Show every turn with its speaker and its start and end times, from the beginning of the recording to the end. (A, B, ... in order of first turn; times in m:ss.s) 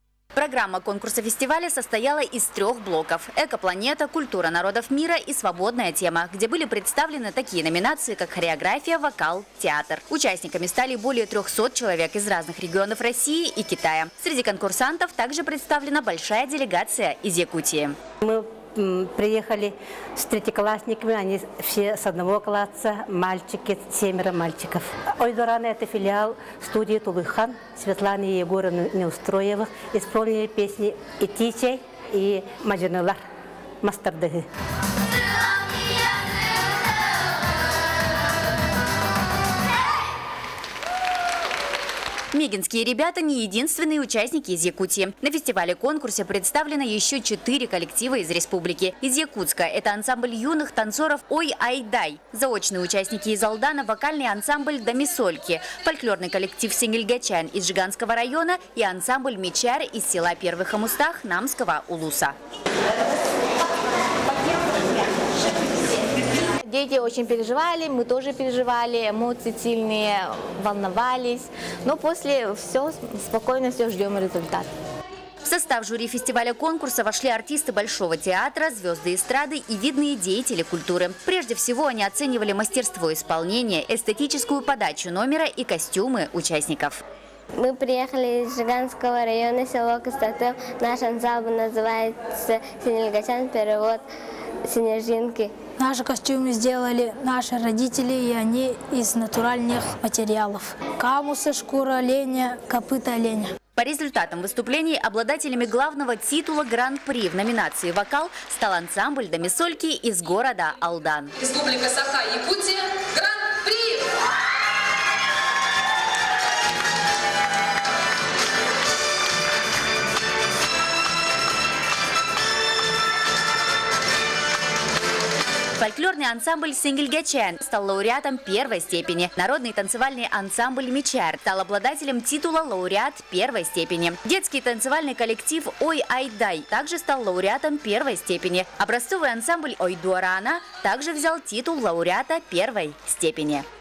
0:00.4-0:18.0 A
0:18.2-0:33.2 B
0:33.8-0:34.5 B
0:42.3-1:02.4 A
1:06.6-1:14.7 C
1:15.4-1:27.0 A
1:27.6-1:34.0 D
1:34.7-1:35.5 D
1:35.8-1:43.5 E
1:43.8-1:52.7 A
2:05.8-2:23.6 A